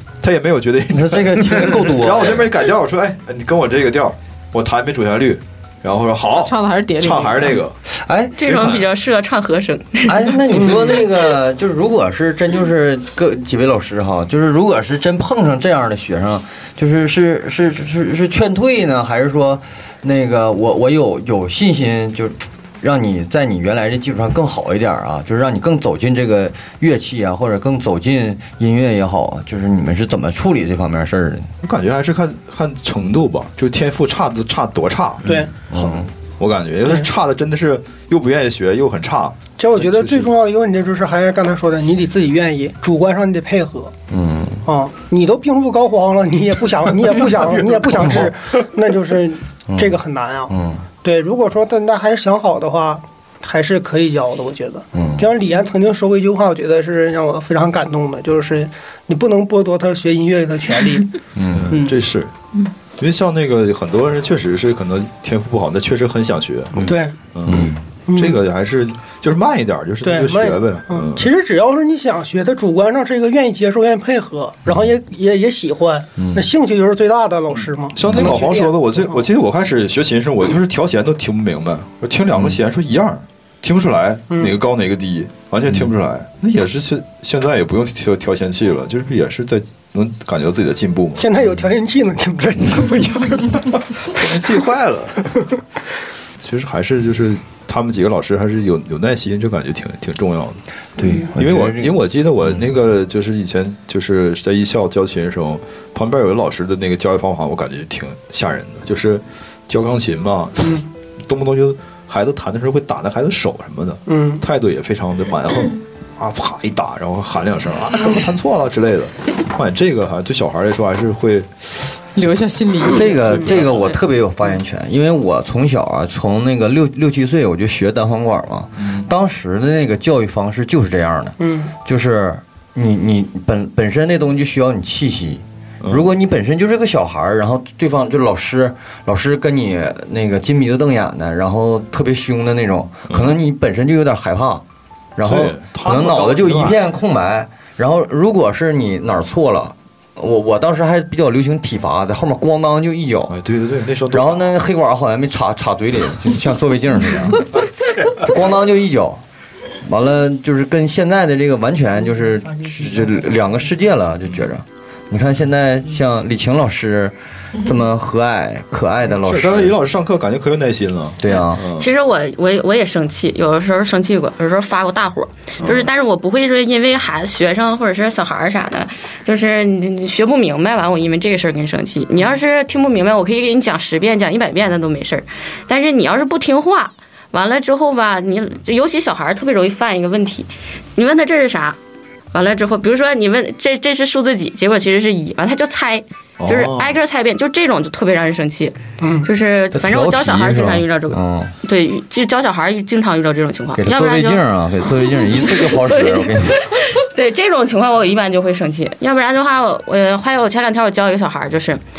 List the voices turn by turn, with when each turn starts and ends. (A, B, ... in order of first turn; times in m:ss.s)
0:00.2-0:07.7 A
0:00.9-0:02.5 B
0:06.3-0:07.6 C
0:07.9-0:08.7 B
0:08.4-0:10.7 D
0:08.4-0:08.8 A
0:10.1-0:31.5 B
0:31.6-0:40.3 A
0:35.2-0:35.5 E
0:35.7-0:36.1 B
0:39.6-0:43.9 E
0:44.1-0:44.6 B
0:44.6-1:01.2 E
0:47.8-0:48.3 A
0:49.7-0:49.9 B
0:50.5-0:50.8 B
0:54.9-0:55.3 B
1:01.3-1:01.7 B
1:01.5-1:02.3 A
1:03.0-1:11.3 A
1:06.8-1:07.2 E
1:07.4-1:07.8 B
1:08.1-1:08.4 E
1:10.0-1:19.2 E
1:16.2-1:16.4 B
1:17.9-1:31.3 A
1:18.0-1:18.4 B
1:31.2-1:33.8 E
1:34.0-1:35.3 A
1:36.4-1:40.6 A
1:41.0-1:42.7 B
1:41.3-2:01.5 A
1:54.1-1:54.4 E
2:02.2-2:03.9 C
2:02.9-2:24.6 B
2:08.8-2:09.1 A
2:11.4-2:11.7 E
2:15.8-2:16.1 A
2:23.1-2:23.4 A
2:25.2-2:33.4 B
2:25.2-2:26.8 A
2:33.3-2:34.5 A
2:34.1-2:39.2 B
2:39.8-2:49.8 B
2:49.1-2:51.9 A
2:51.2-2:51.6 B
2:51.4-3:11.8 D
3:12.3-3:31.8 D
3:16.4-3:17.0 A
3:19.0-3:19.3 E
3:19.7-3:21.5 B
3:23.8-3:26.6 B